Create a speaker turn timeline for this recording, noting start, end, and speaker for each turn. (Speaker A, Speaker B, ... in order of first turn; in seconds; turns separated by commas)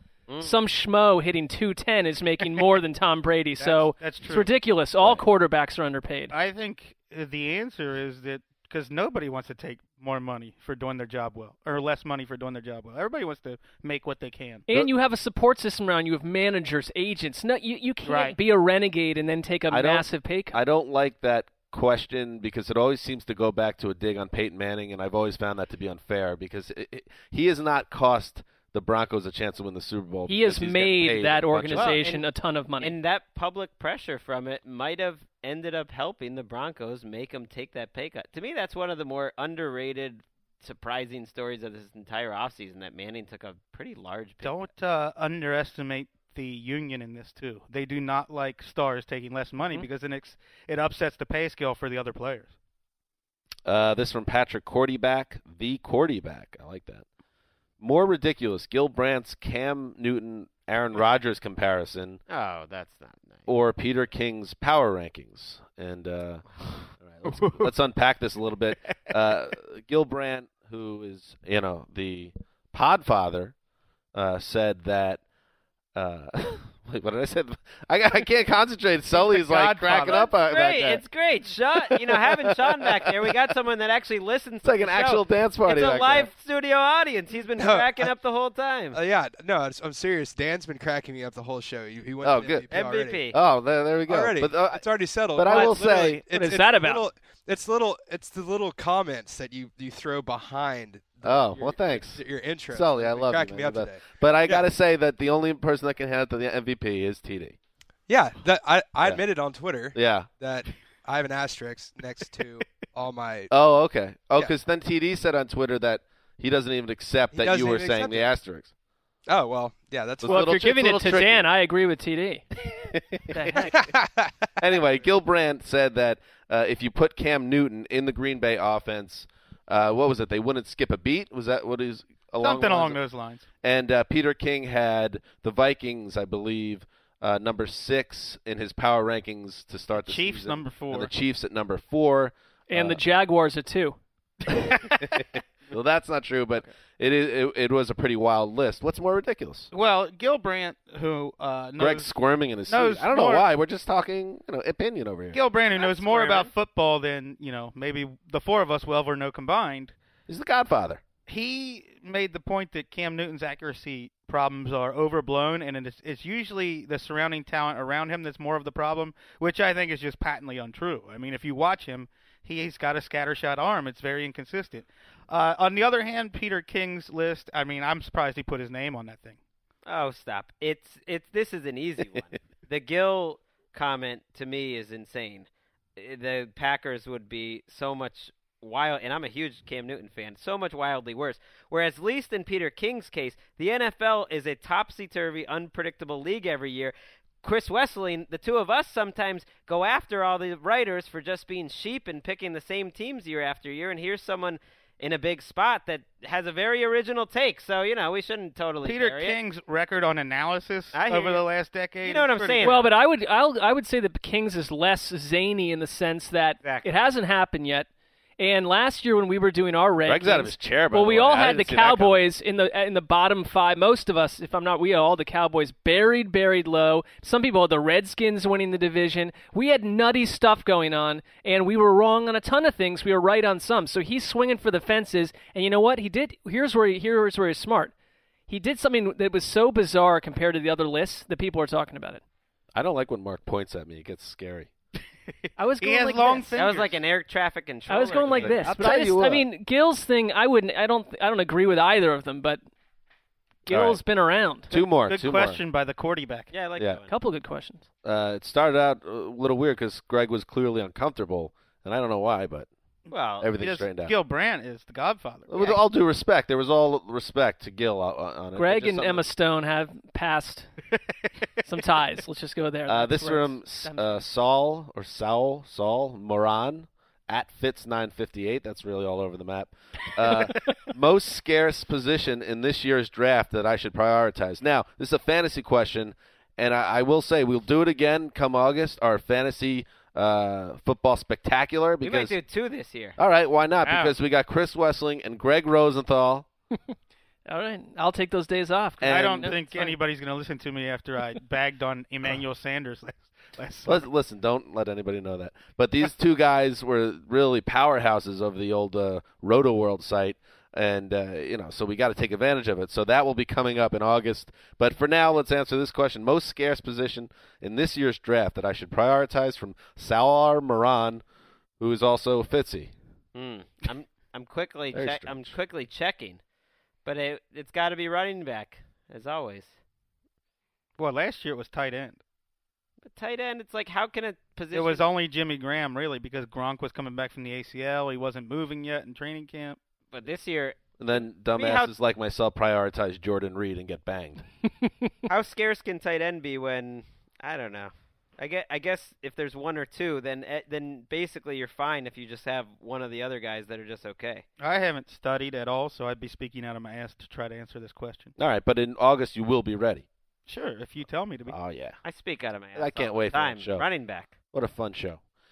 Speaker A: 0.3-0.5, Speaker B: 0.4-6.3, Speaker C: 3.6-4.5, Speaker C: 6.3-14.7, Speaker B: 14.7-20.6, Speaker C: 18.0-18.4, Speaker A: 19.7-32.0, Speaker B: 30.3-33.0, Speaker D: 31.7-32.2, Speaker D: 32.8-44.7, Speaker C: 44.4-52.5, Speaker A: 53.7-57.1, Speaker A: 57.8-62.2, Speaker D: 62.3-63.5, Speaker A: 63.5-66.5, Speaker A: 67.0-73.5, Speaker C: 67.3-67.7, Speaker A: 74.1-75.2, Speaker A: 76.0-81.0, Speaker C: 79.1-80.3, Speaker D: 80.1-89.0, Speaker A: 84.6-86.3, Speaker E: 87.6-88.1, Speaker E: 88.9-93.3, Speaker A: 92.2-92.7, Speaker D: 92.7-93.4, Speaker A: 93.3-96.2, Speaker E: 94.1-104.7, Speaker D: 95.5-95.8, Speaker D: 96.3-97.0, Speaker A: 101.2-107.6, Speaker E: 108.1-113.5, Speaker A: 109.9-110.3, Speaker A: 113.5-118.7, Speaker E: 117.3-118.3, Speaker E: 119.3-120.5, Speaker A: 120.2-121.5, Speaker B: 120.3-122.5, Speaker A: 122.7-123.7, Speaker B: 123.3-123.9, Speaker E: 123.8-124.3, Speaker A: 124.6-133.0, Speaker C: 132.4-133.5, Speaker A: 133.6-143.0, Speaker C: 140.0-141.1, Speaker B: 142.7-144.0, Speaker C: 144.5-145.2, Speaker A: 145.7-149.7, Speaker C: 149.7-152.1, Speaker A: 151.8-155.4, Speaker C: 152.7-153.5, Speaker C: 155.3-159.9, Speaker D: 155.8-156.5, Speaker A: 160.3-161.0, Speaker C: 161.3-179.4, Speaker D: 179.8-209.4, Speaker C: 208.8-212.9, Speaker D: 210.9-211.5, Speaker D: 212.0-212.9, Speaker B: 212.6-217.9, Speaker B: 218.4-237.9, Speaker A: 220.1-222.3, Speaker B: 238.5-242.2, Speaker A: 242.7-244.7, Speaker B: 245.6-246.5, Speaker C: 245.8-247.0, Speaker D: 246.6-248.8, Speaker B: 247.9-252.6, Speaker A: 248.4-249.4, Speaker C: 248.7-249.1, Speaker B: 253.7-254.7, Speaker A: 253.7-254.0, Speaker A: 254.7-255.6, Speaker C: 255.0-256.5, Speaker D: 256.5-257.1, Speaker B: 257.1-257.9, Speaker A: 258.0-262.7, Speaker D: 263.1-263.5, Speaker A: 263.4-264.1, Speaker C: 263.5-265.8, Speaker A: 265.5-269.3, Speaker B: 268.6-270.7, Speaker B: 271.6-274.2, Speaker A: 272.9-292.4, Speaker D: 292.0-293.2, Speaker A: 293.2-296.5, Speaker C: 293.8-294.1, Speaker B: 297.5-300.0, Speaker A: 299.0-299.4, Speaker C: 299.0-304.1, Speaker A: 303.9-321.2, Speaker A: 321.8-322.9, Speaker D: 323.3-326.4, Speaker A: 324.9-325.5, Speaker D: 327.1-329.8, Speaker C: 331.0-332.2, Speaker D: 333.0-335.0, Speaker C: 334.7-339.8, Speaker D: 340.1-341.9, Speaker A: 341.0-344.4, Speaker D: 345.3-354.4, Speaker C: 354.6-358.3, Speaker A: 358.4-360.1, Speaker C: 360.5-361.6, Speaker A: 361.5-362.0, Speaker D: 362.0-364.4, Speaker A: 362.8-363.9, Speaker A: 364.5-365.2